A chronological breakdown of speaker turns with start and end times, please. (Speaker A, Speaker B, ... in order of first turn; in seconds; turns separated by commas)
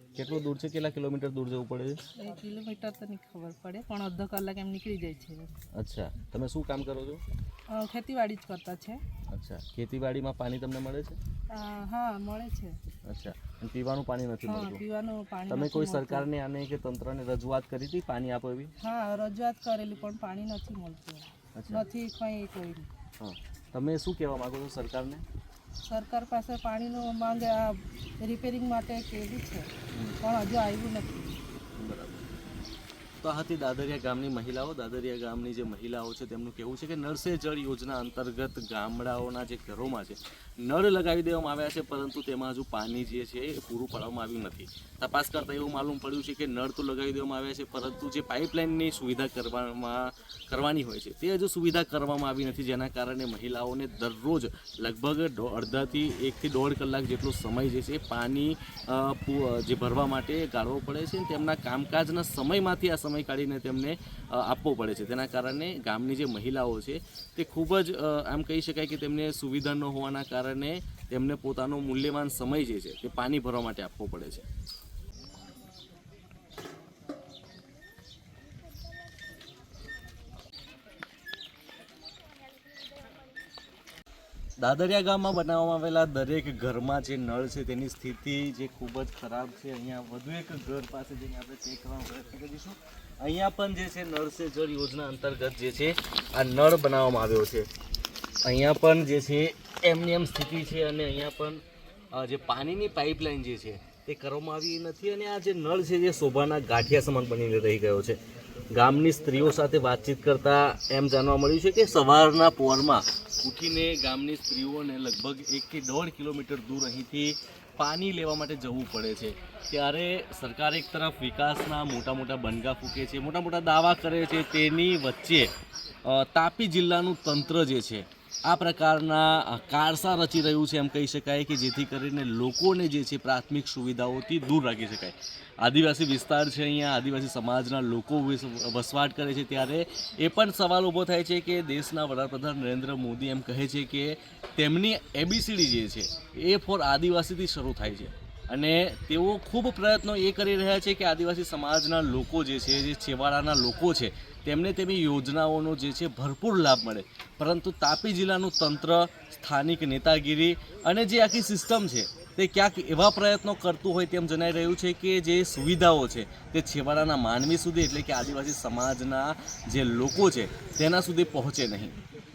Speaker A: 0.2-2.0, Speaker B: 2.2-5.5, Speaker A: 5.7-7.2, Speaker B: 7.7-9.0, Speaker A: 9.3-11.2, Speaker B: 11.5-12.8, Speaker A: 13.1-14.8, Speaker B: 14.5-16.3, Speaker A: 15.5-18.7, Speaker B: 18.8-22.9, Speaker A: 21.6-21.9, Speaker A: 23.2-25.2, Speaker B: 25.9-29.7, Speaker B: 30.2-31.4, Speaker A: 31.8-32.3, Speaker A: 33.2-74.5, Speaker A: 84.6-97.7, Speaker A: 98.4-108.2, Speaker A: 108.7-125.5, Speaker A: 126.0-172.0